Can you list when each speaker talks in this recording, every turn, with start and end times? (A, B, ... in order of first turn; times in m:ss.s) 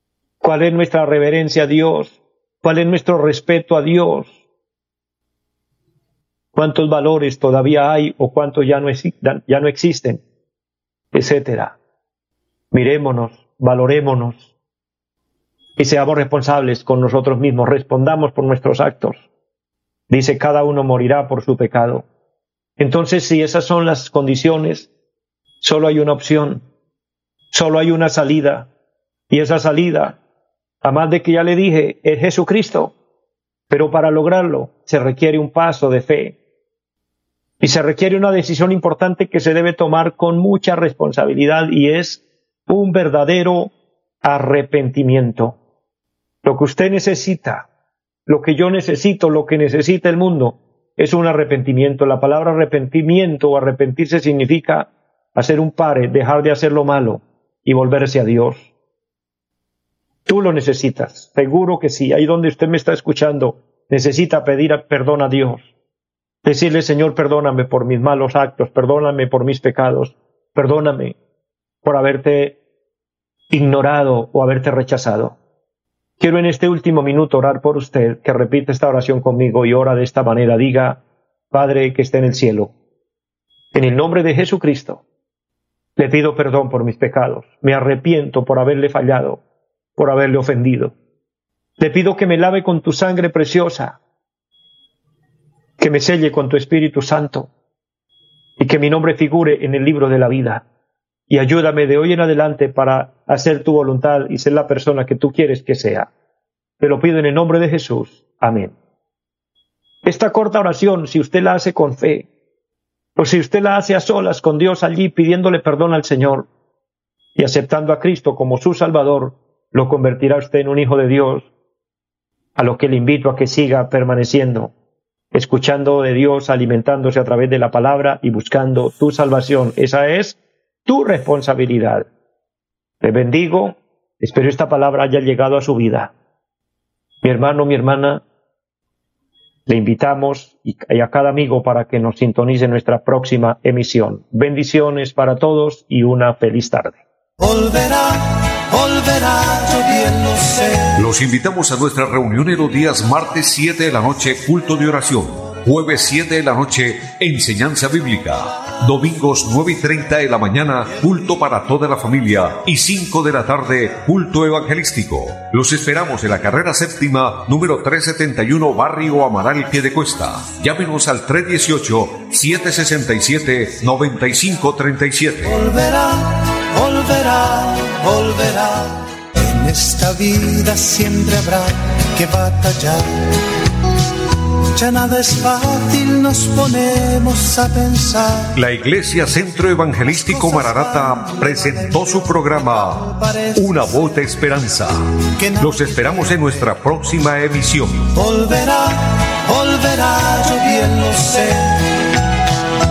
0:00.4-0:04.4 A
0:06.6-0:10.2 A
0:11.1-0:11.8 A
0:12.7-0:14.5 A
0:15.8-0:19.2 A
0:20.1-0:22.1 A
0:22.8-0:24.9 A
0:25.6-0:26.7 A
0:27.5-0:28.7 A
0:29.3-0:30.2 A
0:30.8-0:33.0 A
0:33.7-0:36.4 A
0:37.6-0:45.6 A
0:46.4-0:47.7 A
0:48.3-0:58.7 A
1:00.3-1:05.7 A
1:06.4-1:11.2 A
1:11.8-1:12.6 A
1:13.5-1:15.4 A
1:16.2-1:22.7 A
1:23.7-1:25.0 A
1:26.0-1:29.4 A
1:30.0-1:30.9 A
1:31.8-1:34.0 A
1:35.8-1:37.5 A
1:38.6-1:40.6 A
1:41.3-1:46.1 A
1:46.8-1:48.8 A
1:50.0-1:52.3 A
1:53.2-1:56.5 A
1:57.4-2:01.5 A
2:02.6-2:04.7 A
2:05.3-2:12.1 A
2:13.0-2:16.1 A
2:17.2-2:18.2 A
2:19.7-2:27.0 A
2:27.4-2:31.0 B
2:31.0-2:55.5 C
2:55.4-3:08.6 B
3:08.6-3:15.0 C
3:10.1-3:14.0 B
3:15.4-3:16.7 B
3:15.6-3:18.1 C
3:18.1-3:22.2 B